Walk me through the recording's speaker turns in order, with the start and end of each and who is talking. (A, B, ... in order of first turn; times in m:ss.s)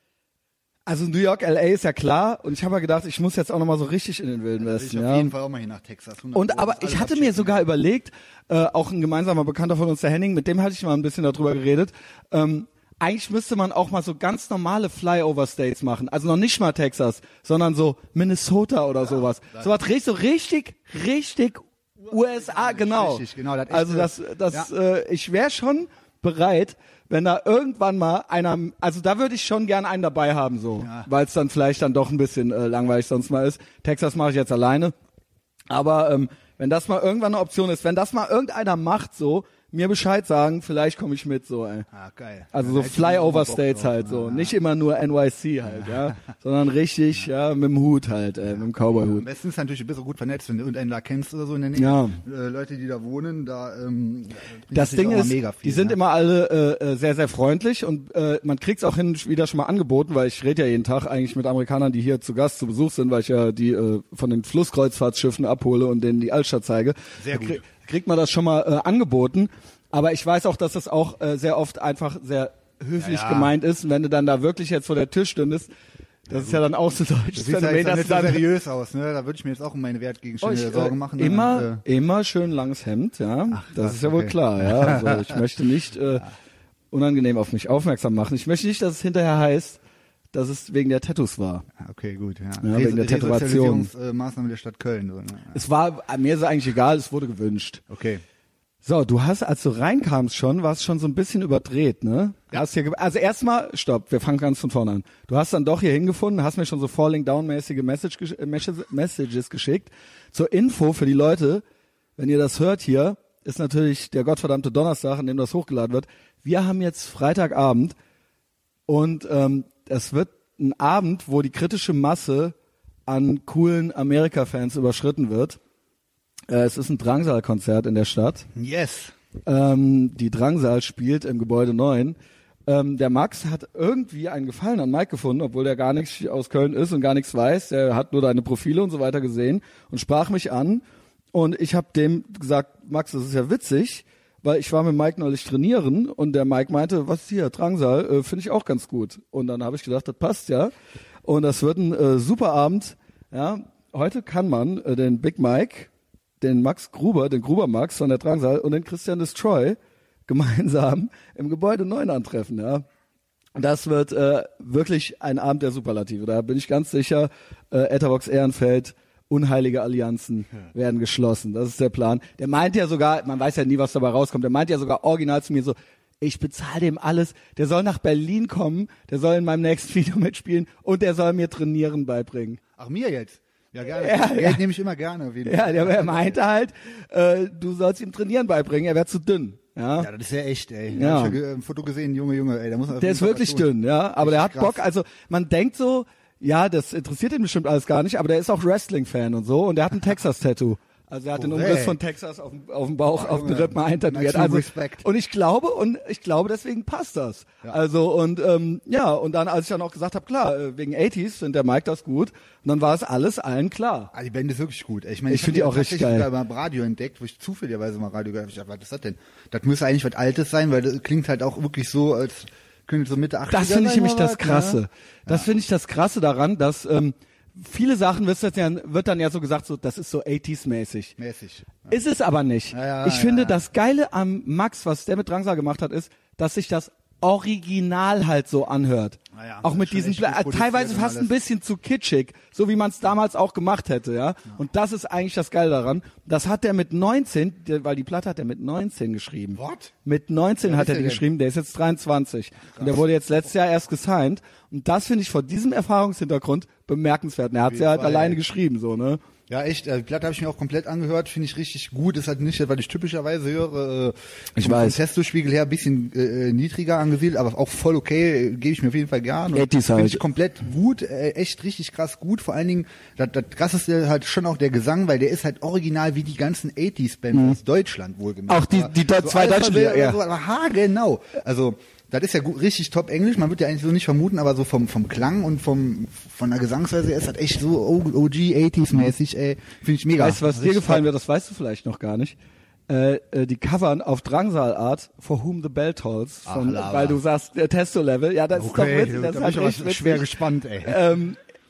0:00.9-0:05.3 A
0:04.6-0:07.7 B
0:06.4-0:34.9 A
0:19.1-0:19.7 B
0:22.1-0:24.7 B
0:30.8-0:31.1 B
0:35.7-0:41.9 A
0:41.9-0:44.5 B
0:42.5-0:49.3 A
0:45.7-0:46.1 B
0:48.9-0:56.0 B
0:51.8-0:52.2 A
0:54.7-1:15.7 A
1:07.2-1:07.6 B
1:13.0-1:13.5 B
1:16.3-1:18.4 A
1:16.3-1:16.6 B
1:17.3-1:21.8 B
1:20.4-1:26.2 A
1:23.5-1:25.4 B
1:26.9-1:29.8 A
1:30.3-1:31.6 A
1:31.8-1:35.6 B
1:32.6-1:33.9 A
1:35.5-1:37.8 A
1:37.9-1:38.2 B
1:38.8-1:51.6 A
1:52.2-1:57.9 A
1:58.9-2:02.6 A
2:03.1-2:05.6 A
2:06.5-2:08.5 A
2:08.6-2:09.1 B
2:09.5-2:30.7 A
2:31.2-2:35.9 A
2:36.4-2:42.8 A
2:43.6-3:02.6 A
3:02.8-3:06.4 B
3:03.9-3:04.6 A
3:05.4-3:10.1 A
3:10.0-3:14.8 B
3:10.9-3:11.4 A
3:13.0-3:34.1 A
3:21.4-3:22.0 B
3:23.1-3:25.1 B
3:34.1-3:45.5 B
3:35.3-3:36.3 A
3:43.5-3:51.1 A
3:51.2-3:52.0 B
3:51.9-4:19.2 A
3:52.7-3:53.6 B
3:59.3-4:01.3 B
4:09.6-4:09.9 B
4:10.6-4:11.2 B
4:12.8-4:13.0 B
4:17.7-4:18.4 B
4:19.5-4:51.0 B
4:24.6-4:25.0 A
4:29.5-4:30.2 A
4:38.5-4:40.2 A
4:50.2-4:52.4 A
4:52.9-5:01.4 A
4:56.5-4:57.2 B
4:58.5-5:01.0 B